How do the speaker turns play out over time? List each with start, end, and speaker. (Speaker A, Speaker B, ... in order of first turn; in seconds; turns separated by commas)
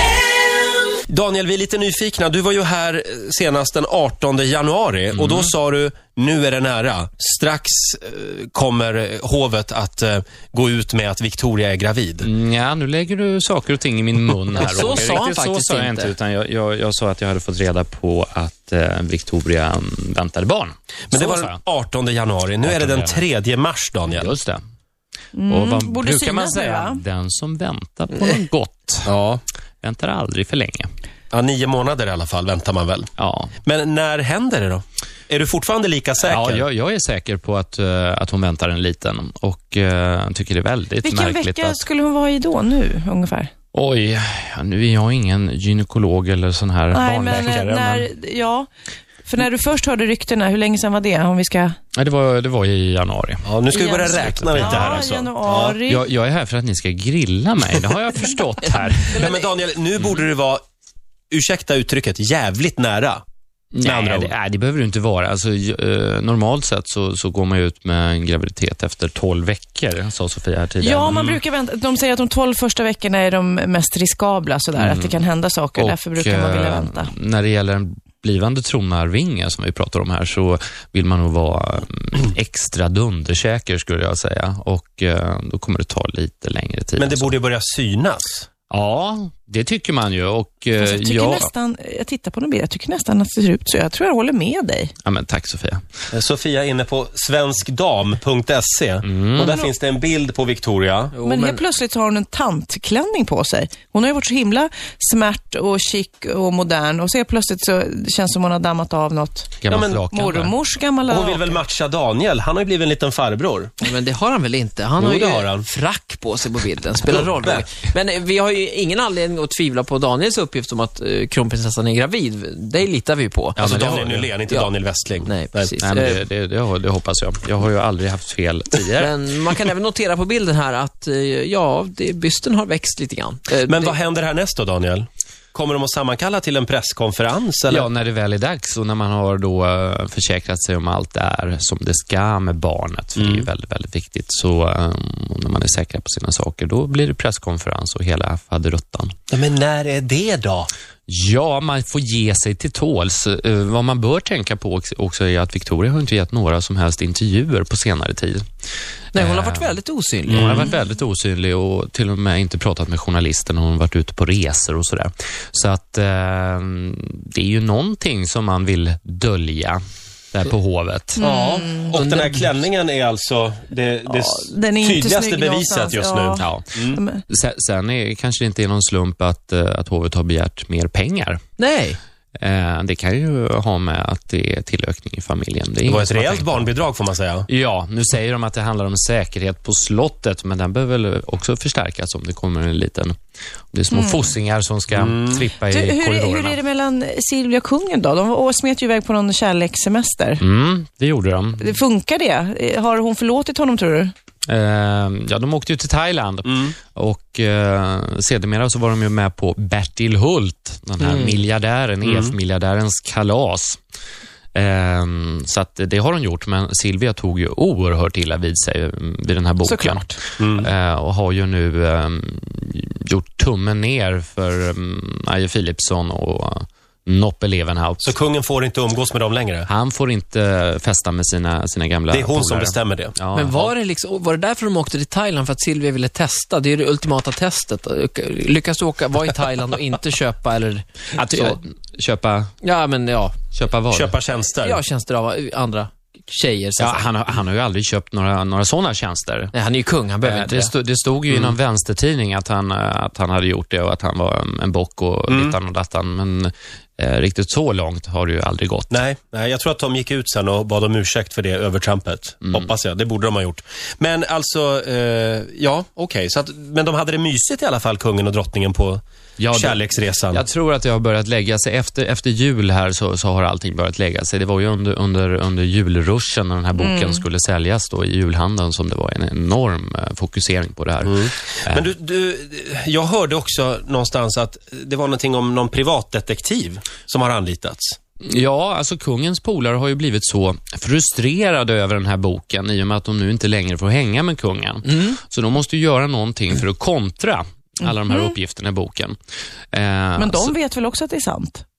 Speaker A: 1.1-12.3, Speaker B: 5.1-5.5, Speaker B: 12.2-21.6, Speaker C: 14.5-16.1, Speaker A: 21.1-24.3, Speaker B: 22.6-23.2, Speaker B: 24.1-24.6, Speaker D: 25.3-27.0, Speaker B: 25.5-29.1, Speaker A: 29.1-29.4, Speaker B: 29.8-30.9, Speaker A: 31.3-33.1, Speaker B: 33.2-33.5, Speaker A: 33.6-36.6, Speaker B: 36.2-41.8, Speaker D: 41.0-43.5, Speaker B: 43.7-48.1, Speaker D: 46.9-48.7, Speaker D: 49.2-51.7, Speaker B: 52.0-53.5, Speaker A: 53.5-55.8, Speaker D: 53.7-56.0, Speaker B: 54.3-55.0, Speaker B: 55.9-59.2, Speaker A: 59.1-60.6, Speaker C: 59.2-59.5, Speaker A: 61.3-63.2, Speaker B: 63.7-71.2, Speaker A: 63.8-64.3, Speaker D: 70.8-77.1, Speaker A: 71.1-71.4, Speaker B: 74.8-75.2, Speaker B: 75.8-87.3, Speaker A: 87.0-88.5, Speaker B: 88.7-91.5, Speaker D: 90.8-94.9, Speaker B: 95.0-95.8, Speaker A: 96.1-101.2, Speaker B: 99.0-99.6, Speaker D: 99.4-99.7, Speaker C: 101.1-101.6, Speaker D: 101.2-111.6, Speaker B: 109.6-110.5, Speaker A: 109.7-110.0, Speaker A: 111.0-113.8, Speaker C: 113.8-123.6, Speaker A: 115.0-115.7, Speaker A: 117.0-117.6, Speaker B: 123.6-124.3, Speaker A: 123.6-125.7, Speaker C: 124.5-126.2, Speaker B: 125.8-129.1, Speaker C: 129.0-133.9, Speaker A: 133.7-137.9, Speaker B: 137.7-149.1, Speaker A: 143.2-143.4, Speaker A: 149.3-150.7, Speaker B: 151.1-158.4, Speaker C: 159.1-160.7, Speaker B: 159.2-169.8, Speaker A: 160.3-160.7, Speaker B: 170.3-171.2, Speaker D: 171.2-171.9, Speaker A: 171.2-177.0, Speaker C: 171.3-172.6, Speaker D: 174.1-177.2, Speaker B: 176.4-176.8, Speaker B: 177.3-181.4, Speaker C: 181.6-182.0, Speaker B: 182.3-186.8, Speaker A: 185.8-187.5, Speaker B: 187.5-193.2, Speaker B: 193.7-196.6, Speaker D: 193.9-194.4, Speaker A: 194.9-195.4, Speaker D: 195.6-200.4, Speaker B: 200.4-201.7, Speaker D: 201.6-204.1, Speaker B: 204.5-213.8, Speaker A: 206.5-206.7, Speaker C: 211.0-211.4, Speaker A: 212.0-212.3, Speaker B: 214.5-228.2, Speaker D: 219.6-220.2, Speaker A: 220.4-220.7, Speaker A: 228.0-229.7, Speaker B: 229.7-233.7, Speaker A: 232.1-233.2, Speaker C: 233.3-241.6, Speaker B: 241.1-242.5, Speaker C: 242.6-243.4, Speaker B: 243.5-244.1, Speaker A: 243.9-244.8, Speaker C: 244.6-247.1, Speaker B: 246.8-249.5, Speaker C: 249.5-250.7, Speaker B: 250.2-259.0, Speaker A: 255.3-255.6, Speaker A: 258.9-270.4, Speaker B: 269.4-281.8, Speaker D: 276.8-277.2, Speaker A: 281.1-288.0, Speaker B: 288.2-299.2, Speaker D: 298.1-298.3, Speaker B: 299.7-300.5, Speaker D: 300.1-301.6